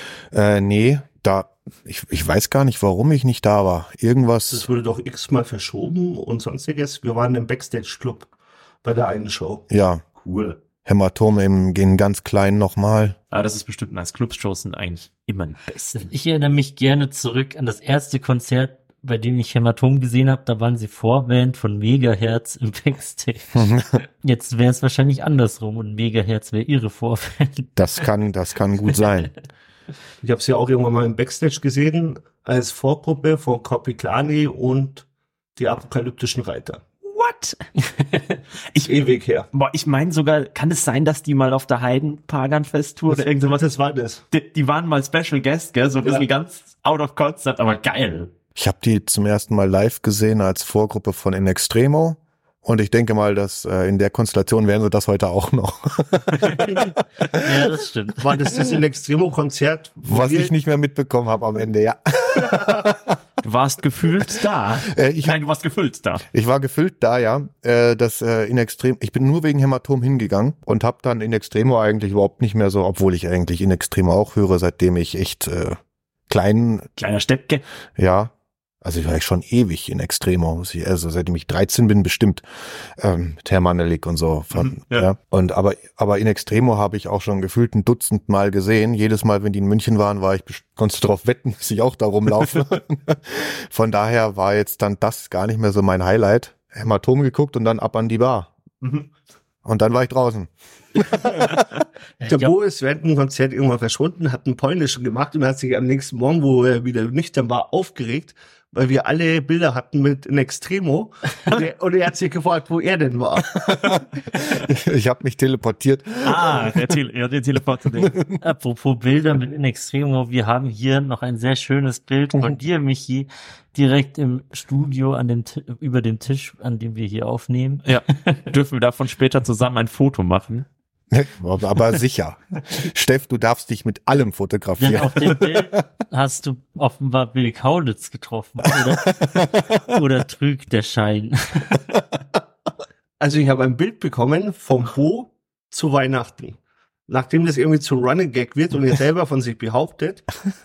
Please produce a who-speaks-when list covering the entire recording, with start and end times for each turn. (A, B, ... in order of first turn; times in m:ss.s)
0:00.3-0:04.6 A
0:04.5-0:08.3 B
0:08.8-0:09.6 B
0:09.7-0:10.0 A
0:10.2-0:10.6 C
0:10.8-0:13.2 A
0:13.3-0:16.1 C
0:16.0-0:23.6 D
0:23.5-0:24.0 A
0:24.2-0:27.8 D
0:27.8-0:29.3 A
0:30.2-0:35.0 B
0:35.6-0:36.8 B
0:37.0-0:37.6 C
0:38.7-0:43.6 C
0:38.8-0:39.5 B
0:43.1-0:44.2 B
0:44.3-0:48.3 C
0:48.6-0:57.4 A
0:57.3-0:58.2 D
0:58.2-1:00.5 B
1:00.0-1:03.2 A
1:03.4-1:06.2 C
1:04.8-1:05.4 A
1:06.3-1:16.9 A
1:17.0-1:17.6 C
1:18.0-1:22.4 A
1:23.0-1:38.5 A
1:24.6-1:25.1 C
1:38.8-1:39.1 C
1:39.6-1:41.8 A
1:42.2-1:42.5 D
1:42.3-1:53.9 B
1:53.7-1:56.9 A
1:56.2-1:58.2 C
1:58.0-1:58.4 A
1:58.4-2:08.4 D
2:07.8-2:10.6 C
2:11.1-2:15.8 A
2:14.8-2:21.9 D
2:18.7-2:19.9 A
2:23.2-2:26.6 B
2:27.1-2:30.3 B